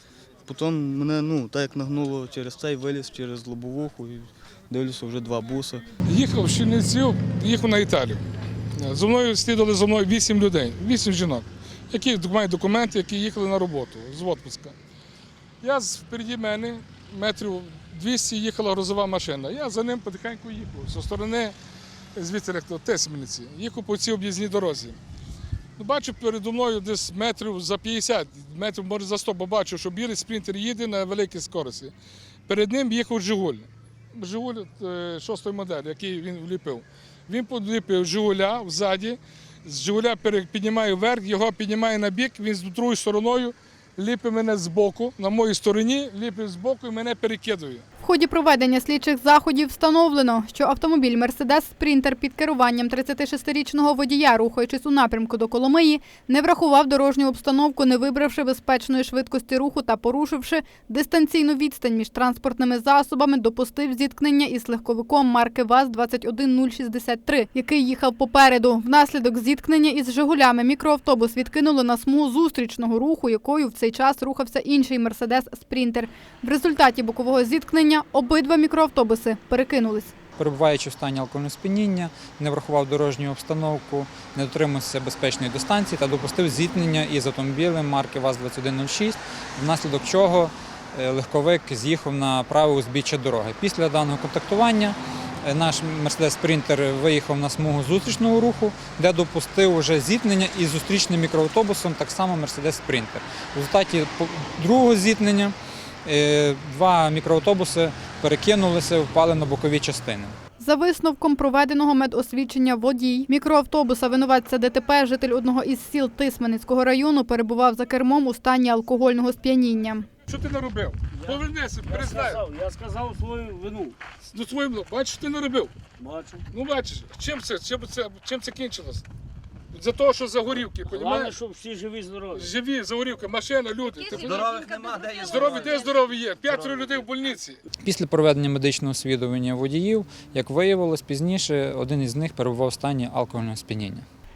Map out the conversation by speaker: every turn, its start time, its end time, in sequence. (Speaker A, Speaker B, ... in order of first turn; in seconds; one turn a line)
Speaker A: 0.5-5.8
Speaker B: 6.0-14.8
Speaker B: 15.6-21.6
Speaker B: 22.1-25.0
Speaker B: 25.8-31.9
Speaker B: 32.5-47.8
Speaker C: 48.0-80.1
Speaker D: 80.4-110.3
Speaker C: 110.6-120.1
Speaker B: 120.2-122.4
Speaker E: 121.1-124.0
Speaker B: 124.3-125.7
Speaker E: 126.0-126.5
Speaker B: 126.5-129.0
Speaker B: 129.7-131.3
Speaker E: 130.8-132.5
Speaker B: 132.3-137.6
Speaker D: 137.8-144.1